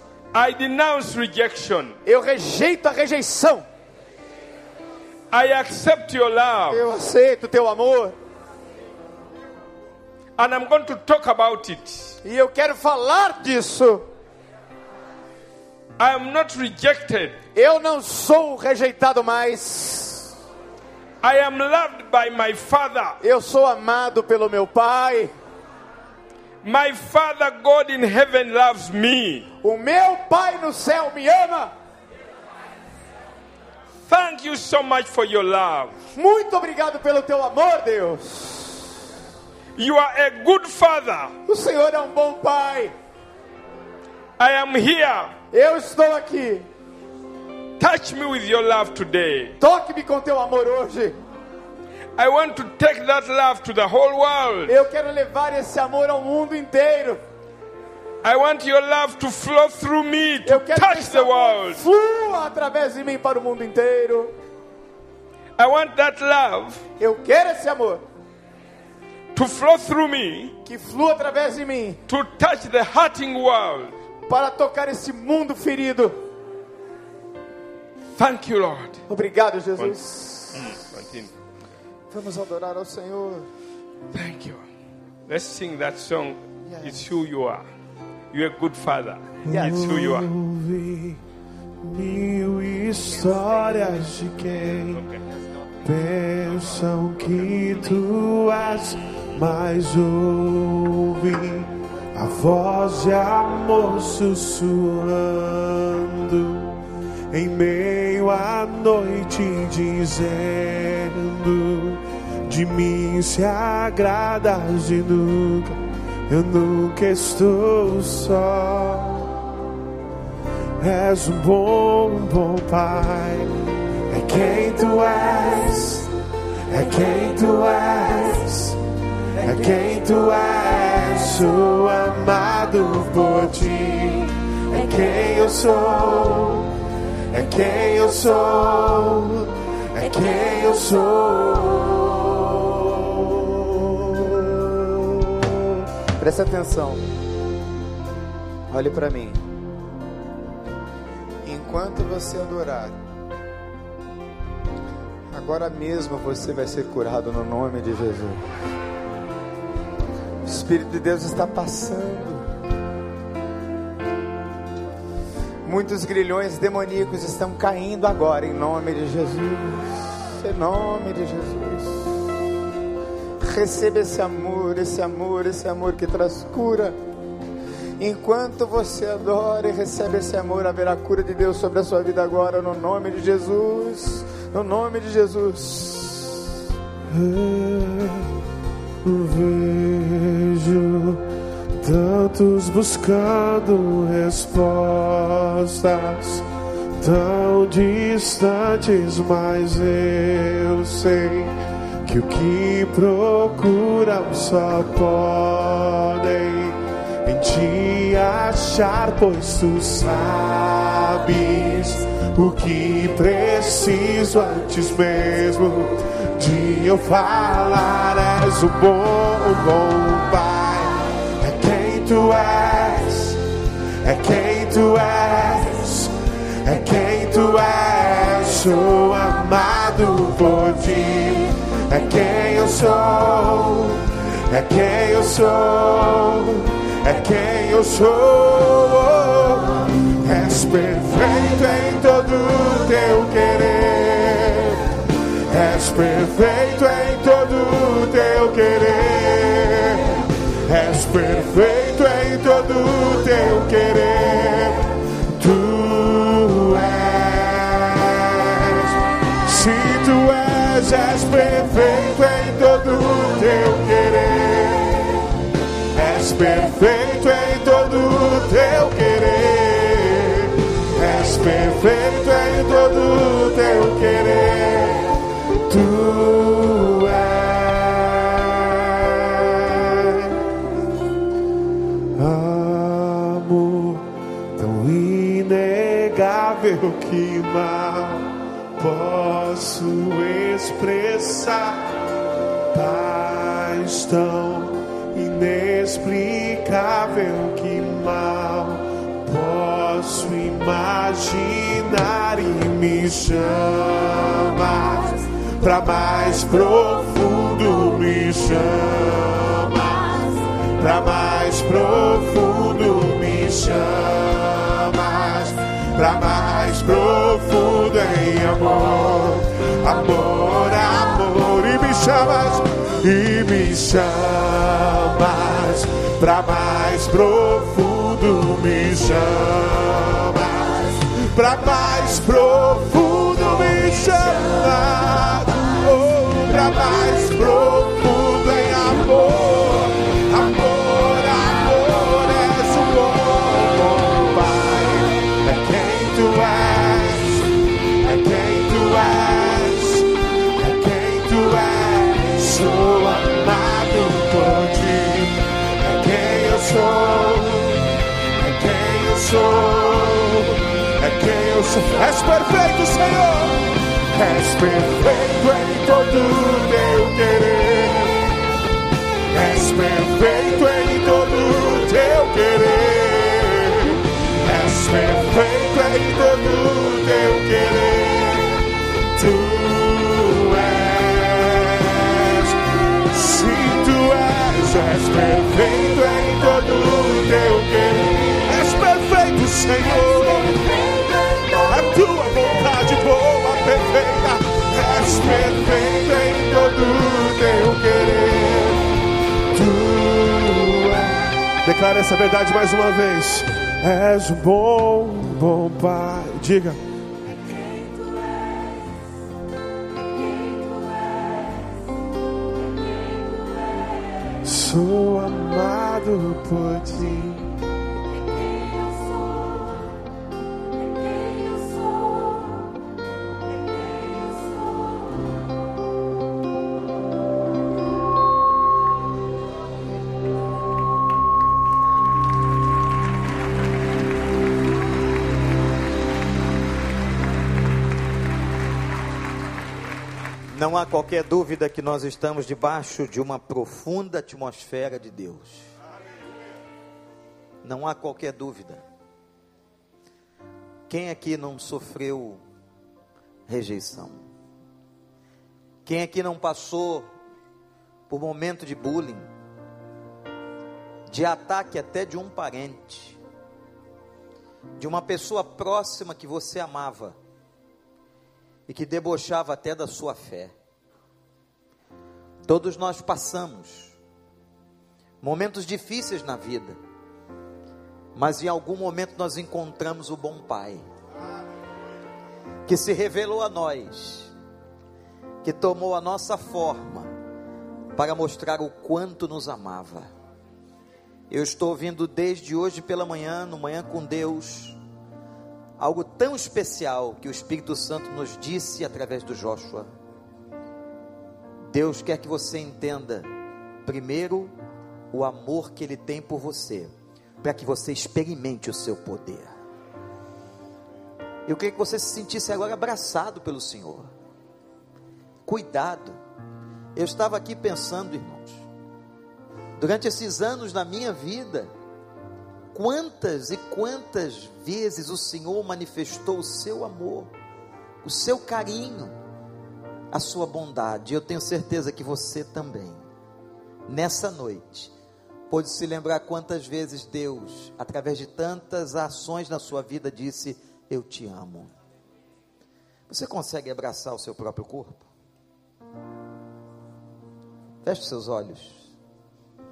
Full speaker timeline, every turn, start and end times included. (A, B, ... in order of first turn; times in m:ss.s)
0:00.3-0:02.0 A
0:02.0-0:03.6 B
0:05.3-0:06.8 A
0:06.7-0:08.2 B
0:10.4-0:12.2 A
0:12.2-0:14.1 B
0:16.0-0:17.4 A
0:17.5-0:20.3 B
0:21.2-0:23.2 A
0:23.2-0:25.3 B
0:26.6-0:29.5 A
0:29.6-0:31.7 B
0:34.0-0:36.0 A
0:36.1-0:38.9 B
0:39.8-0:41.3 A
0:41.4-0:42.9 B
0:44.4-0:45.4 A
0:45.5-0:46.7 B
0:47.8-0:49.6 A
0:49.6-0:51.2 B
0:52.2-0:54.8 A
0:54.7-0:57.2 B
0:58.2-1:01.8 A
1:00.4-1:04.3 B
1:05.6-1:06.8 A
1:07.0-1:08.0 B
1:09.3-1:10.6 A
1:10.6-1:12.0 B
1:12.1-1:14.0 A
1:14.3-1:16.2 B
1:18.2-1:19.0 A
1:19.1-1:20.8 B
1:20.5-1:21.4 A
1:22.1-1:23.5 B
1:24.1-1:24.6 A
1:25.3-1:27.6 A
1:26.6-1:27.0 B
1:28.3-1:30.3 A
1:29.4-1:31.2 C
1:29.5-1:29.8 B
1:31.8-1:35.0 C
1:35.8-1:59.3 C
2:00.8-2:03.5 C
2:04.1-2:06.1 C
2:06.7-2:08.8 C
2:09.4-2:16.7 C
2:17.3-2:25.4 C
2:26.2-2:27.1 B
2:28.7-2:29.4 B
2:31.4-2:33.0 B
2:35.3-2:38.4 B
2:40.4-2:42.5 B
2:45.6-2:52.2 B
2:53.4-2:56.9 B
2:58.0-3:06.6 B
3:07.1-3:08.3 C
3:09.0-3:11.2 C
3:11.8-3:16.4 C
3:17.0-3:43.4 C
3:44.0-4:25.4 C
4:25.9-4:40.4 C
4:42.1-4:52.0 C
4:52.7-5:47.5 C
5:48.0-6:08.4 C
6:09.3-6:30.9 C
6:31.4-6:39.0 C
6:39.5-6:46.8 C
6:54.4-6:57.5 C
7:20.5-7:25.7 D
7:27.6-7:28.8 D
7:30.9-7:32.4 D
7:33.5-7:34.2 D
7:35.8-7:37.1 D
7:38.1-7:39.3 D
7:41.1-7:43.2 D
7:44.8-7:47.2 D
7:48.7-7:50.5 D
7:52.4-7:53.9 D
7:55.2-7:56.8 D
7:58.1-8:00.8 D
8:02.6-8:04.3 D
8:05.4-8:07.1 D
8:07.9-8:10.1 D
8:11.3-8:14.8 D
8:15.8-8:19.9 D
8:21.6-8:23.3 D
8:23.8-8:24.5 D
8:25.1-8:29.5 D
8:31.4-8:34.1 D
8:35.4-8:36.2 D
8:36.9-8:38.6 D
8:39.8-8:41.7 D
8:42.7-8:47.3 D
8:48.0-8:49.2 D
8:50.1-8:53.0 D
8:53.9-8:54.9 D
8:55.5-9:01.7 D
9:03.1-9:05.0 D
9:07.8-9:08.8 D